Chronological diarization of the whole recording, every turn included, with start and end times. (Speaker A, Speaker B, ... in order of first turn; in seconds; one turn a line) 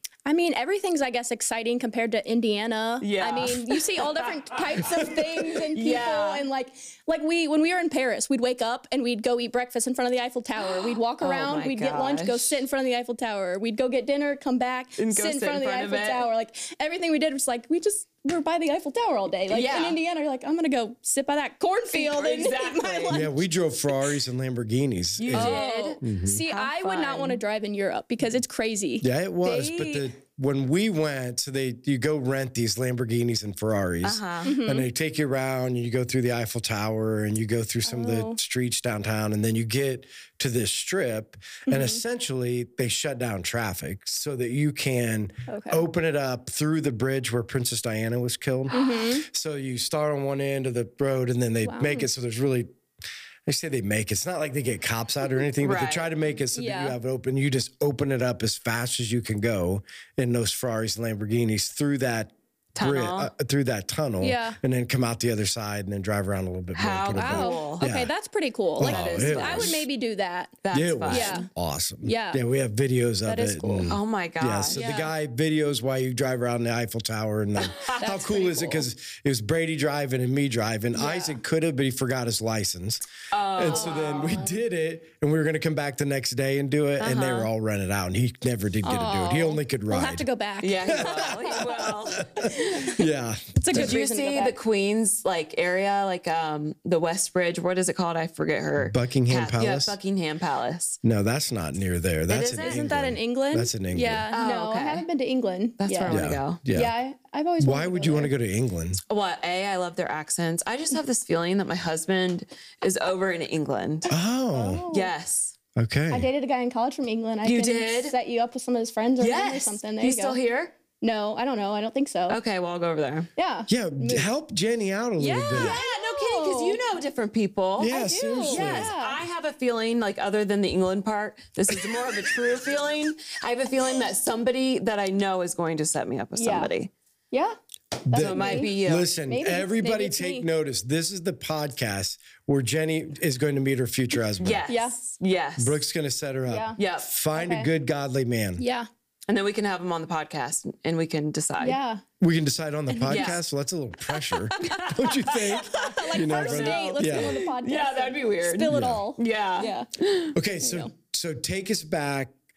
Speaker A: 0.3-23.4
Speaker B: 3.0-5.0
Speaker B: 5.5-6.5
Speaker B: 10.7-12.6
Speaker B: 15.0-16.3
Speaker B: 19.5-20.0
Speaker B: 21.9-23.3
Speaker C: 23.1-26.4
Speaker B: 25.2-27.4
Speaker A: 25.3-30.0
Speaker C: 29.0-52.7
Speaker B: 34.0-34.6
Speaker A: 34.4-34.9
Speaker A: 37.9-38.4
Speaker A: 41.7-42.0
Speaker A: 45.5-45.8
Speaker A: 48.7-49.3
Speaker A: 51.6-52.1
Speaker C: 53.5-68.1
Speaker B: 55.6-56.1
Speaker A: 56.5-57.0
Speaker B: 62.8-63.3
Speaker A: 64.2-64.6
Speaker B: 66.8-67.9
Speaker A: 67.1-71.5
Speaker C: 68.8-69.8
Speaker B: 68.8-69.8
Speaker B: 70.6-71.5
Speaker C: 70.7-90.3
Speaker A: 72.0-72.4
Speaker A: 73.2-73.9
Speaker B: 73.9-75.1
Speaker A: 74.7-75.1
Speaker B: 77.6-78.0
Speaker A: 78.0-78.8
Speaker A: 81.0-81.4
Speaker B: 83.3-84.5
Speaker A: 83.7-84.5
Speaker B: 87.0-87.5
Speaker A: 88.8-91.6
Speaker B: 90.6-93.0
Speaker C: 90.9-93.9
Speaker A: 92.4-93.0
Speaker A: 93.5-94.6
Speaker B: 93.7-101.0
Speaker C: 98.8-100.0
Speaker C: 101.0-104.3
Speaker B: 102.3-102.8
Speaker A: 102.6-108.3
Speaker B: 104.3-105.0
Speaker B: 105.8-106.6
Speaker C: 106.1-106.9
Speaker C: 107.6-109.0
Speaker B: 109.1-114.1
Speaker C: 114.1-114.9
Speaker A: 114.5-115.1
Speaker B: 114.9-115.6
Speaker C: 115.8-116.3
Speaker A: 116.1-120.4
Speaker B: 117.5-118.1
Speaker B: 119.2-120.7
Speaker A: 121.0-122.4
Speaker B: 122.3-123.3
Speaker A: 123.4-124.3
Speaker C: 123.7-125.8
Speaker A: 125.2-126.8
Speaker B: 125.5-136.9
Speaker C: 127.8-128.9
Speaker A: 127.9-129.2
Speaker A: 136.4-136.7
Speaker A: 137.3-137.6
Speaker A: 138.1-140.5
Speaker C: 138.1-144.6
Speaker B: 138.1-139.1
Speaker B: 144.4-145.8
Speaker A: 144.7-145.0
Speaker C: 145.6-148.6
Speaker A: 146.5-146.8
Speaker B: 146.8-147.1
Speaker A: 147.3-147.7
Speaker A: 148.6-148.9
Speaker B: 149.3-151.8
Speaker A: 151.6-152.0
Speaker C: 152.2-157.4
Speaker A: 152.9-153.4
Speaker B: 153.1-153.4
Speaker B: 154.6-160.3
Speaker A: 155.6-159.9
Speaker C: 158.7-159.0
Speaker C: 160.3-162.3
Speaker A: 160.6-160.9